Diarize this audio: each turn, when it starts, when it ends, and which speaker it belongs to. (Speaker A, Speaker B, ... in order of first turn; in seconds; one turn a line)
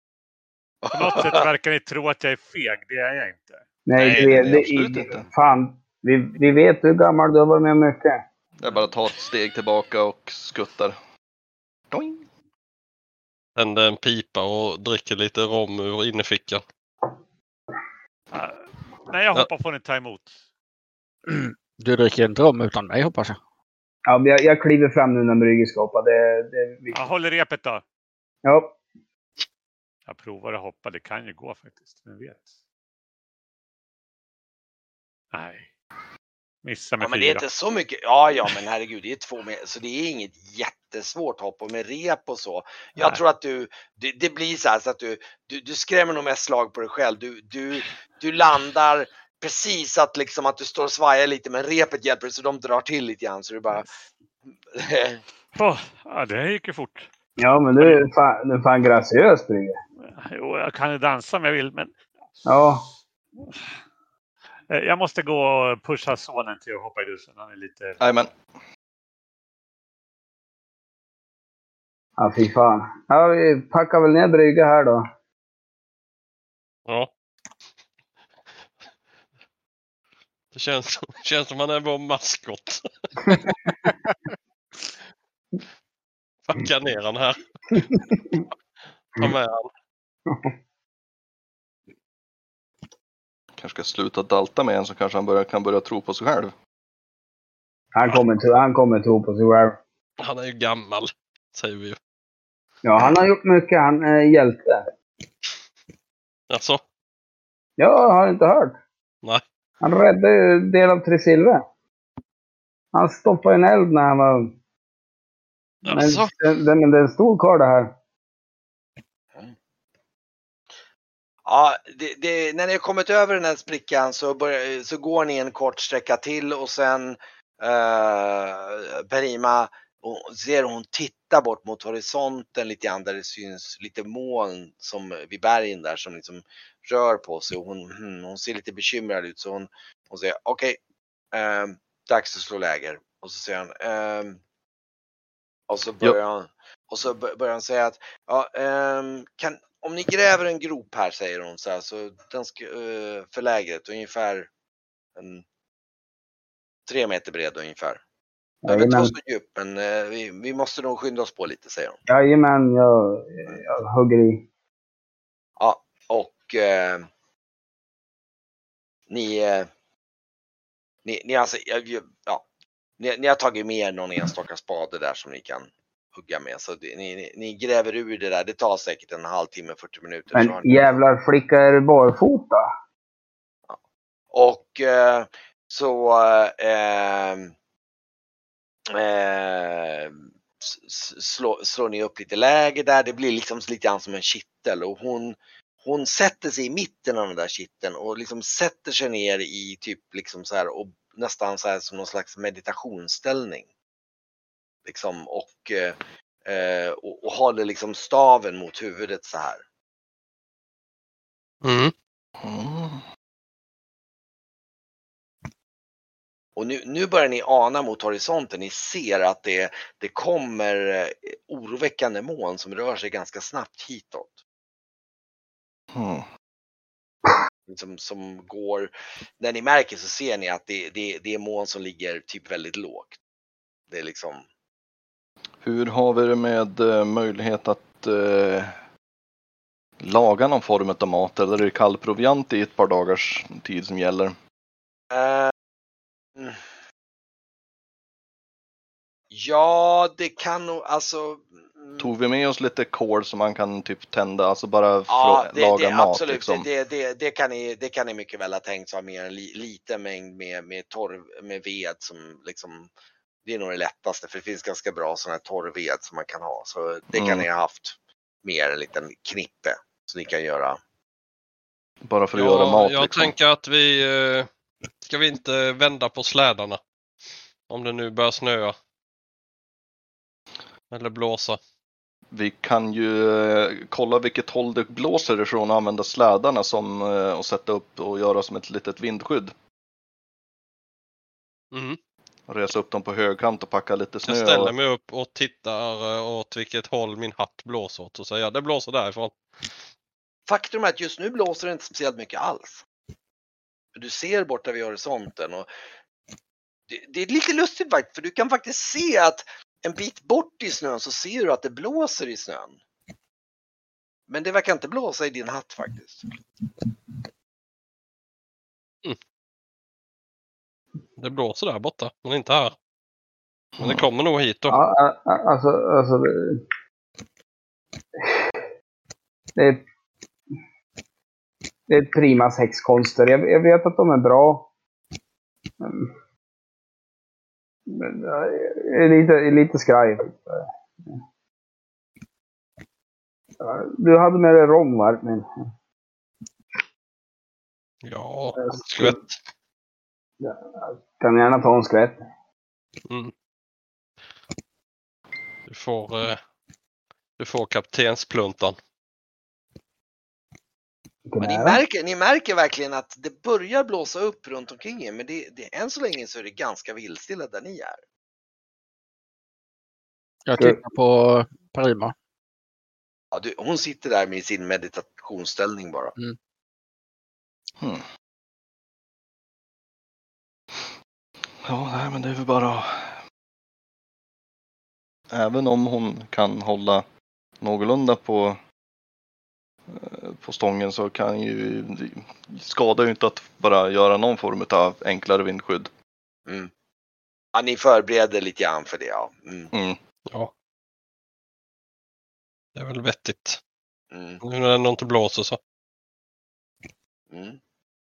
Speaker A: 0.8-1.5
Speaker B: 0.9-5.3
Speaker C: 3.9-8.2
Speaker D: 4.0-5.2
Speaker D: 8.6-11.0
Speaker D: 11.9-12.3
Speaker E: 13.6-16.6
Speaker B: 18.3-20.4
Speaker F: 21.3-23.4
Speaker C: 24.1-27.0
Speaker B: 26.9-27.8
Speaker C: 28.4-28.8
Speaker B: 30.1-32.5
Speaker B: 35.3-35.7
Speaker B: 36.6-37.5
Speaker A: 37.0-53.9
Speaker A: 54.7-55.2
Speaker B: 55.5-57.1
Speaker C: 57.4-59.8
Speaker B: 60.1-62.0
Speaker C: 62.5-62.9
Speaker B: 64.7-68.0
Speaker D: 68.0-68.3
Speaker C: 72.2-75.0
Speaker E: 76.9-77.1
Speaker E: 80.5-83.5
Speaker E: 86.5-87.8
Speaker C: 87.8-88.4
Speaker E: 89.1-89.7
Speaker D: 93.6-96.5
Speaker C: 97.9-99.8
Speaker E: 100.2-102.0
Speaker C: 102.8-104.8
Speaker E: 106.5-106.8
Speaker C: 107.8-108.8
Speaker C: 109.8-111.6
Speaker C: 112.9-114.5
Speaker E: 115.8-116.3
Speaker C: 115.9-117.9
Speaker A: 121.5-140.8
Speaker A: 141.3-144.4
Speaker A: 145.7-154.5
Speaker A: 155.2-155.4
Speaker A: 156.9-158.0
Speaker C: 158.6-159.1
Speaker A: 158.7-162.0
Speaker C: 162.1-164.5
Speaker A: 165.6-167.1
Speaker A: 169.1-169.7
Speaker A: 171.1-172.4
Speaker A: 173.0-180.9
Speaker C: 180.3-182.7
Speaker A: 184.3-187.5
Speaker A: 188.9-203.7
Speaker A: 204.8-209.6
Speaker E: 211.6-211.9
Speaker D: 212.4-213.0
Speaker A: 216.6-224.4
Speaker D: 225.9-226.3
Speaker A: 227.7-233.2
Speaker A: 233.9-234.4
Speaker D: 235.6-238.8
Speaker D: 240.0-244.3
Speaker A: 245.1-245.5
Speaker A: 249.3-252.1
Speaker D: 252.0-256.7
Speaker A: 255.1-262.9
Speaker A: 263.4-270.8
Speaker D: 267.1-267.5
Speaker D: 272.1-273.3
Speaker E: 272.4-274.5
Speaker E: 275.0-276.8
Speaker E: 277.7-278.8
Speaker E: 280.9-281.6
Speaker D: 282.3-289.5
Speaker E: 291.7-292.0
Speaker D: 292.5-294.7
Speaker E: 294.3-299.4
Speaker A: 300.5-302.8
Speaker A: 303.9-305.7
Speaker A: 306.9-312.8
Speaker A: 314.3-316.2
Speaker E: 321.2-322.8
Speaker D: 323.8-324.0
Speaker E: 323.8-324.8
Speaker C: 324.7-326.6
Speaker C: 329.6-329.8
Speaker C: 331.9-334.7
Speaker C: 335.8-336.1
Speaker C: 337.9-341.2
Speaker C: 343.6-345.5
Speaker E: 348.0-349.3
Speaker C: 348.6-349.2
Speaker C: 350.4-352.2
Speaker E: 355.7-356.4
Speaker E: 357.4-358.8
Speaker C: 361.3-361.8
Speaker A: 361.4-368.0
Speaker F: 370.5-372.1
Speaker A: 373.3-376.1
Speaker D: 377.8-378.1
Speaker D: 381.6-383.2
Speaker D: 385.3-387.0
Speaker D: 387.6-388.6
Speaker D: 389.9-395.9
Speaker A: 397.5-399.7
Speaker D: 399.7-400.0
Speaker E: 402.8-403.6
Speaker A: 404.1-404.4
Speaker E: 404.4-405.6
Speaker A: 407.3-407.6